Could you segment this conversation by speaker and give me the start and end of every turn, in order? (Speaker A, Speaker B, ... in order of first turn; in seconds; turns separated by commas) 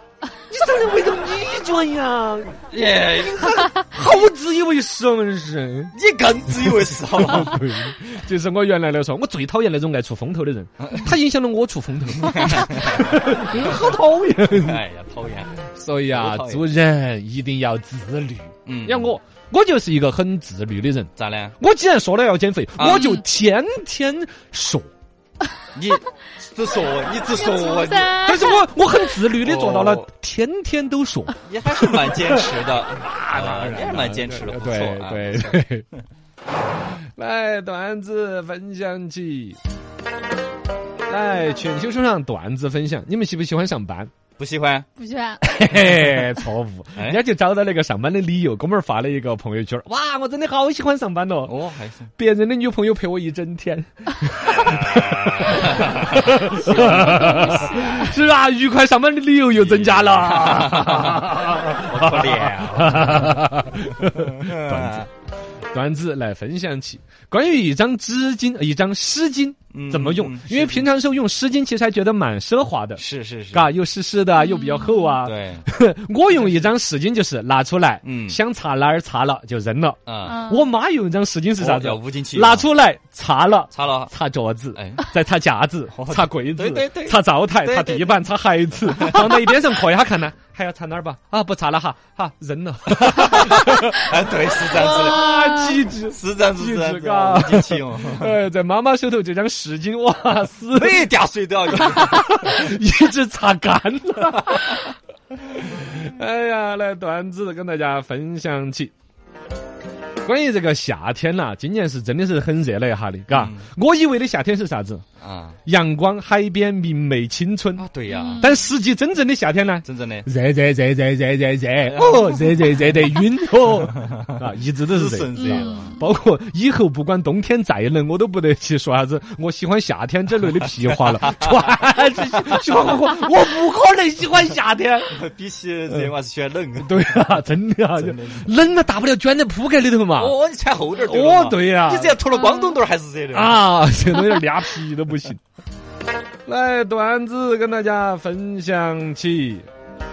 Speaker A: 0.5-5.9, Speaker B: 2.7-3.7, Speaker B: 5.9-7.6, Speaker A: 6.7-14.8, Speaker B: 12.2-13.5, Speaker B: 14.6-15.6, Speaker A: 15.7-24.9, Speaker B: 16.1-16.7, Speaker B: 18.6-19.2, Speaker B: 21.1-21.6, Speaker B: 22.8-23.2, Speaker B: 25.7-28.4, Speaker C: 27.3-28.6, Speaker A: 28.2-35.8, Speaker B: 29.4-30.1, Speaker B: 31.4-35.6, Speaker A: 37.2-39.6, Speaker A: 41.1-44.1, Speaker B: 44.4-44.9, Speaker C: 45.0-45.4, Speaker A: 45.4-51.5, Speaker B: 47.0-47.2, Speaker B: 51.5-52.1, Speaker A: 52.2-65.1, Speaker B: 54.5-58.1, Speaker B: 59.5-63.4, Speaker B: 64.0-65.1, Speaker A: 65.7-73.0, Speaker B: 69.7-70.9, Speaker B: 73.0-73.7, Speaker A: 73.5-93.9, Speaker C: 74.4-75.2, Speaker B: 75.2-75.7, Speaker B: 76.3-76.7, Speaker B: 78.0-78.4, Speaker B: 80.0-80.4, Speaker C: 80.2-80.7, Speaker B: 81.6-82.7, Speaker B: 83.7-84.1, Speaker B: 84.7-85.1, Speaker B: 85.9-88.2, Speaker B: 88.8-89.5, Speaker B: 93.0-95.3, Speaker A: 94.7-101.1, Speaker C: 95.2-95.7, Speaker B: 96.1-98.3, Speaker B: 100.7-102.6, Speaker A: 101.7-104.8, Speaker A: 105.5-108.9, Speaker A: 110.2-115.0, Speaker B: 113.3-113.7, Speaker B: 115.2-115.6, Speaker A: 115.7-117.8, Speaker B: 117.8-118.5, Speaker C: 118.1-118.7, Speaker A: 118.4-135.1, Speaker B: 119.8-120.3, Speaker B: 121.8-122.8, Speaker B: 123.8-126.0, Speaker C: 125.3-126.0, Speaker B: 131.3-131.8, Speaker B: 132.3-132.9, Speaker B: 135.1-137.4, Speaker A: 136.8-140.3, Speaker B: 137.9-138.5, Speaker B: 140.1-143.7, Speaker A: 140.9-142.2, Speaker C: 142.3-142.8, Speaker A: 143.3-145.4, Speaker A: 146.4-149.7